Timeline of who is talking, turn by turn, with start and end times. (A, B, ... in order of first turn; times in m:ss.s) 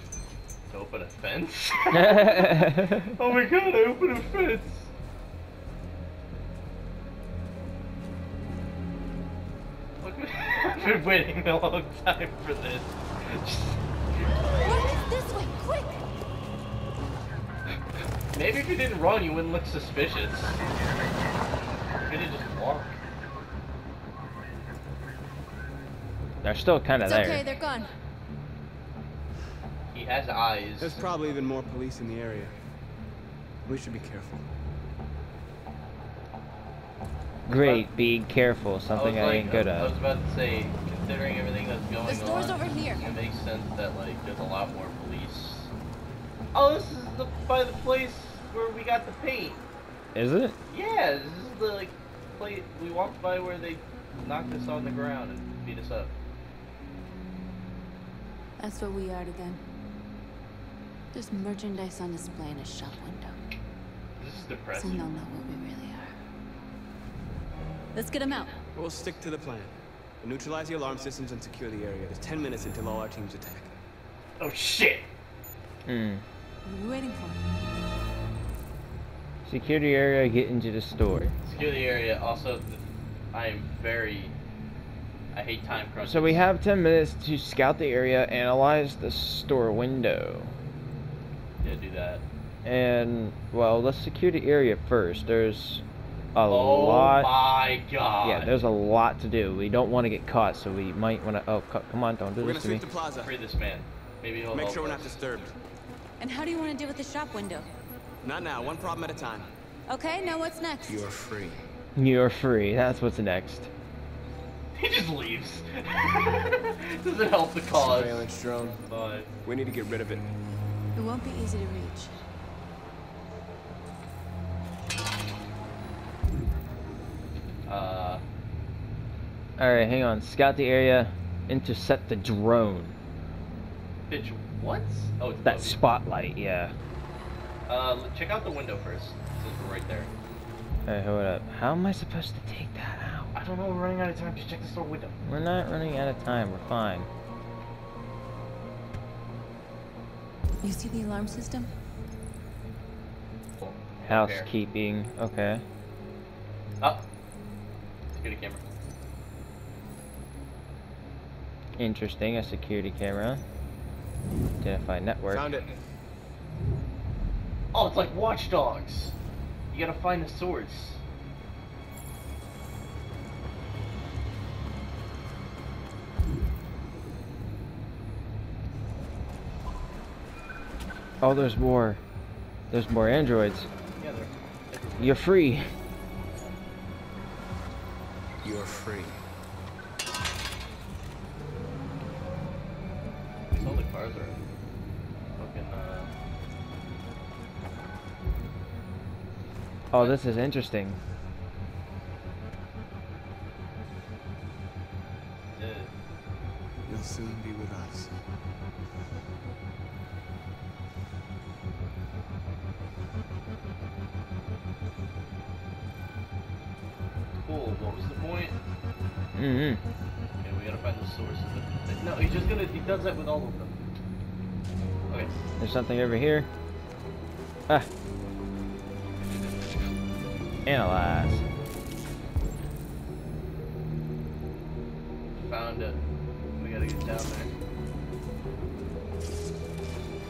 0:00.7-0:04.9 A
0:01.9-0:03.1 B
0:10.0-0:14.6 A
0:14.6-0:16.0 C
0:18.3-0:20.6 A
0:22.0-0:22.9 A
0:26.4-0:27.4 B
0:27.0-0:27.9 C
0:29.9-0:31.1 A
0:30.8-0:32.6 D
0:33.6-0:34.4 D
0:37.5-0:39.9 B
0:37.5-0:37.9 A
0:38.9-0:45.7 A
0:42.0-0:43.0 C
0:46.5-0:49.6 A
0:50.1-0:50.6 B
0:50.7-0:56.1 A
0:58.6-0:59.6 C
1:01.1-1:03.5 C
1:04.2-1:05.1 A
1:04.7-1:06.1 C
1:07.9-1:08.6 C
1:08.7-1:13.7 D
1:14.4-1:15.1 A
1:15.8-1:16.2 B
1:16.6-1:17.4 C
1:19.4-1:21.3 B
1:21.4-1:24.3 A
1:25.3-1:26.5 A
1:26.0-1:30.5 B
1:31.6-1:32.2 A
1:32.6-1:35.8 B
1:36.3-1:37.3 B
1:36.5-1:38.6 A
1:38.2-1:42.8 B
1:42.4-1:43.4 D
1:43.2-1:45.2 A
1:44.5-1:45.6 D
1:46.2-1:47.7 C
1:48.2-1:49.5 D
1:49.9-1:51.0 C
1:50.9-1:51.6 D
1:52.0-1:53.7 B
1:54.7-1:58.3 A
1:57.7-1:58.8 D
1:58.9-1:59.3 A
1:59.4-2:00.3 D
2:00.9-2:02.1 C
2:07.6-2:08.2 A
2:09.6-2:12.9 B
2:14.1-2:15.8 A
2:15.4-2:16.7 B
2:17.7-2:20.1 A
2:20.8-2:23.3 B
2:23.3-2:25.2 A
2:25.2-2:27.1 B
2:30.6-2:31.7 C
2:33.6-2:34.5 A
2:34.1-2:35.6 B
2:38.1-2:38.6 A
2:41.8-2:43.4 B
2:44.6-2:45.5 B
2:45.3-2:45.7 D
2:47.7-2:49.1 A
2:49.7-2:51.0 A
3:01.2-3:02.0 B
3:02.7-3:03.7 B
3:04.0-3:05.3 A
3:05.0-3:05.6 B
3:08.4-3:09.2 D
3:13.5-3:14.4 A
3:15.4-3:16.1 A
3:19.9-3:21.0 B
3:19.9-3:20.2 A
3:25.5-3:25.9 A
3:26.8-3:28.2 D
3:37.3-3:38.6 A
3:39.3-3:39.8 B
3:40.4-3:43.7 A
3:45.6-3:46.5 B
3:49.2-3:49.9 A
3:50.6-3:51.4 B
3:55.3-3:56.0 A
3:56.5-3:57.5 A